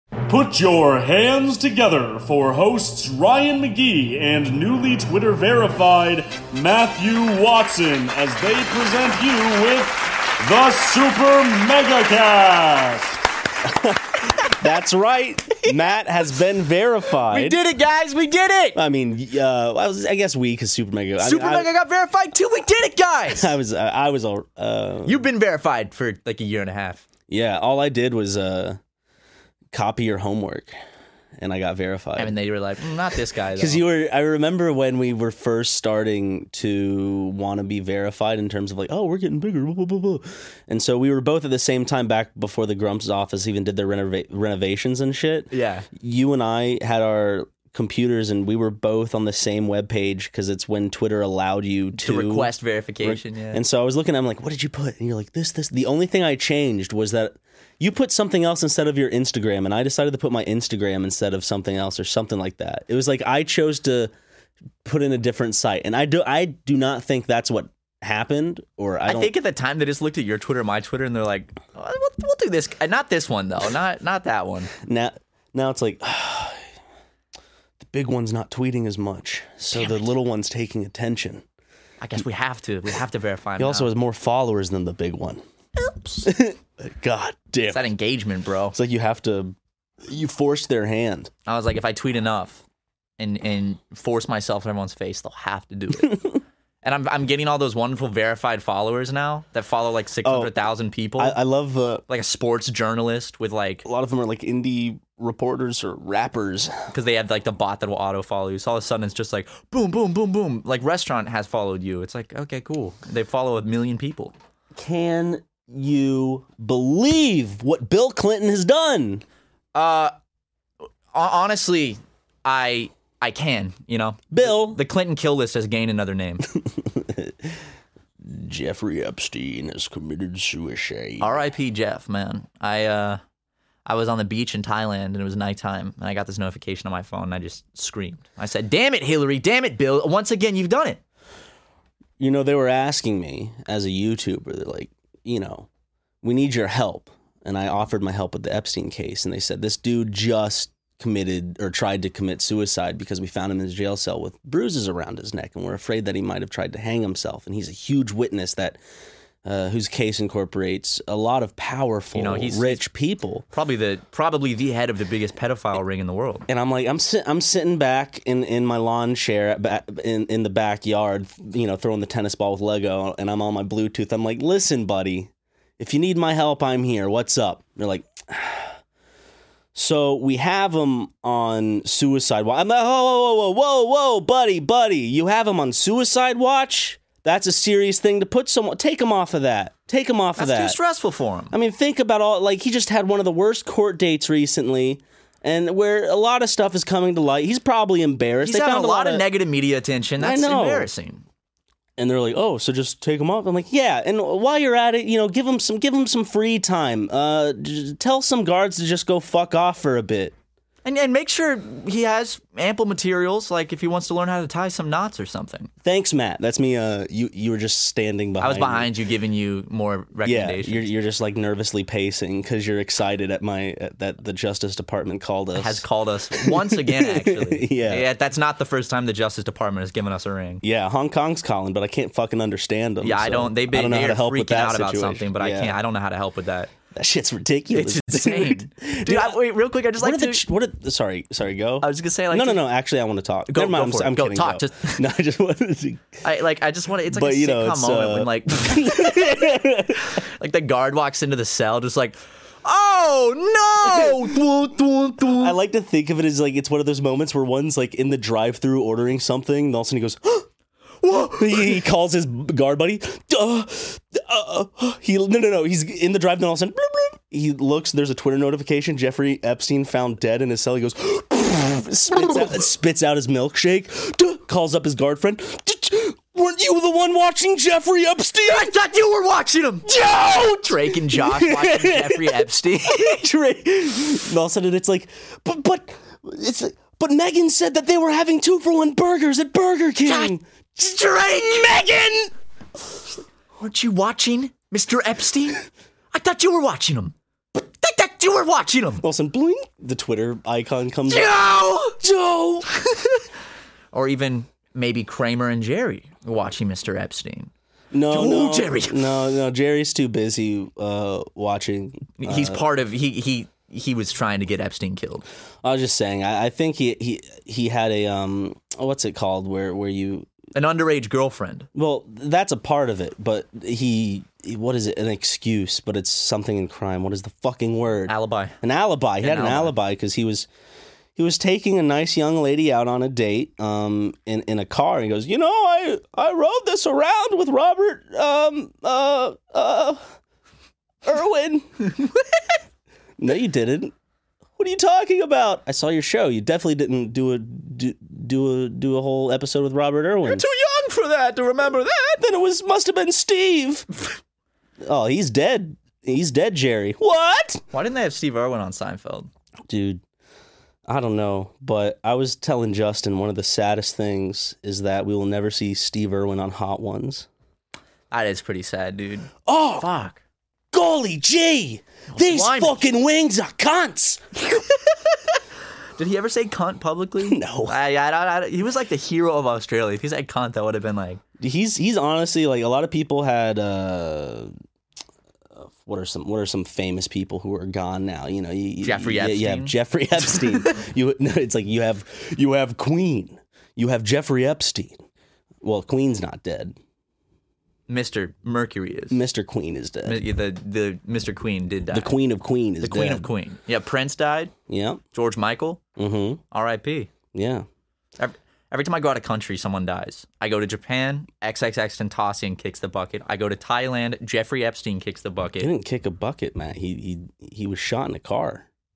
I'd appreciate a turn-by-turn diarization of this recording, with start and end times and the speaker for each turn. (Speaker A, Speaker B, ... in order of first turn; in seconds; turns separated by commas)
Speaker A: 0.3-13.2, Speaker B: 13.6-17.6, Speaker C: 17.2-18.8, Speaker B: 18.7-21.7, Speaker C: 21.2-23.6, Speaker B: 23.3-25.2, Speaker C: 25.1-27.1, Speaker B: 27.3-28.8, Speaker B: 29.7-30.7, Speaker B: 31.4-32.4, Speaker C: 32.2-33.8, Speaker B: 33.5-52.5, Speaker C: 45.5-45.9, Speaker C: 51.9-53.6, Speaker B: 53.0-64.1, Speaker B: 64.8-69.3, Speaker C: 69.0-74.7, Speaker B: 74.8-76.7, Speaker B: 77.8-81.4, Speaker C: 79.7-80.0, Speaker C: 82.0-83.9, Speaker B: 83.6-85.4, Speaker C: 85.8-86.3, Speaker B: 86.2-87.8, Speaker C: 87.7-88.7, Speaker B: 88.7-91.3, Speaker C: 91.5-92.6, Speaker C: 93.2-101.4, Speaker B: 100.2-100.5, Speaker B: 101.2-102.0, Speaker C: 102.1-103.8, Speaker B: 103.8-106.9, Speaker C: 106.9-114.3, Speaker B: 114.7-119.2, Speaker C: 119.7-120.1, Speaker C: 121.1-126.5, Speaker B: 124.3-124.8, Speaker B: 126.6-127.6, Speaker B: 128.2-131.4, Speaker C: 131.2-133.2, Speaker C: 133.8-141.0, Speaker B: 142.2-145.7, Speaker B: 146.2-158.8, Speaker B: 159.4-163.4, Speaker C: 162.1-162.8, Speaker C: 163.5-166.4, Speaker B: 166.5-178.8, Speaker B: 179.7-190.8, Speaker C: 190.4-191.5, Speaker B: 191.5-199.2, Speaker C: 198.4-201.2, Speaker B: 200.2-200.9, Speaker B: 202.0-210.3, Speaker C: 210.8-215.7, Speaker B: 215.8-218.9, Speaker C: 218.4-220.9, Speaker B: 220.2-225.8, Speaker C: 225.5-230.6, Speaker B: 226.4-228.1, Speaker B: 230.6-235.8, Speaker C: 233.0-236.7, Speaker B: 236.9-239.4, Speaker C: 237.7-240.4, Speaker B: 240.0-246.2, Speaker C: 241.8-242.7, Speaker C: 243.5-245.0, Speaker C: 246.2-255.6, Speaker B: 247.1-250.2, Speaker B: 253.9-254.1, Speaker B: 255.3-260.5, Speaker C: 261.0-261.8, Speaker B: 261.1-278.7, Speaker C: 278.4-283.2, Speaker B: 279.9-290.4, Speaker C: 290.0-292.3, Speaker C: 293.6-299.0, Speaker B: 299.0-301.3, Speaker C: 301.1-302.0, Speaker B: 302.0-302.7, Speaker C: 302.8-303.2, Speaker C: 303.9-307.5, Speaker B: 307.9-312.6, Speaker C: 308.1-309.1, Speaker C: 312.2-315.2, Speaker B: 315.6-320.3, Speaker C: 320.5-321.7, Speaker B: 321.7-330.5, Speaker C: 328.1-328.5, Speaker C: 329.2-329.7, Speaker B: 331.1-340.1, Speaker B: 341.0-341.8, Speaker C: 342.0-342.4, Speaker B: 343.2-343.9, Speaker B: 344.6-350.4, Speaker C: 350.2-352.2, Speaker B: 352.2-353.9, Speaker B: 354.8-357.6, Speaker C: 357.7-359.3, Speaker B: 359.7-360.0, Speaker B: 360.9-367.3, Speaker C: 368.1-370.2, Speaker B: 369.4-369.9, Speaker B: 370.7-374.2, Speaker C: 372.1-372.8, Speaker C: 374.4-375.4, Speaker C: 376.0-381.2, Speaker B: 377.2-377.8, Speaker B: 381.4-384.5, Speaker B: 385.5-395.0, Speaker C: 388.8-390.8, Speaker B: 395.6-396.8, Speaker C: 397.9-399.2, Speaker B: 399.1-400.2, Speaker C: 400.0-402.1, Speaker B: 401.9-403.3, Speaker C: 402.8-404.5, Speaker B: 404.7-405.0, Speaker C: 405.1-405.8, Speaker B: 406.0-406.4, Speaker C: 406.5-407.1, Speaker B: 407.3-407.6, Speaker C: 408.2-415.7, Speaker B: 415.6-418.6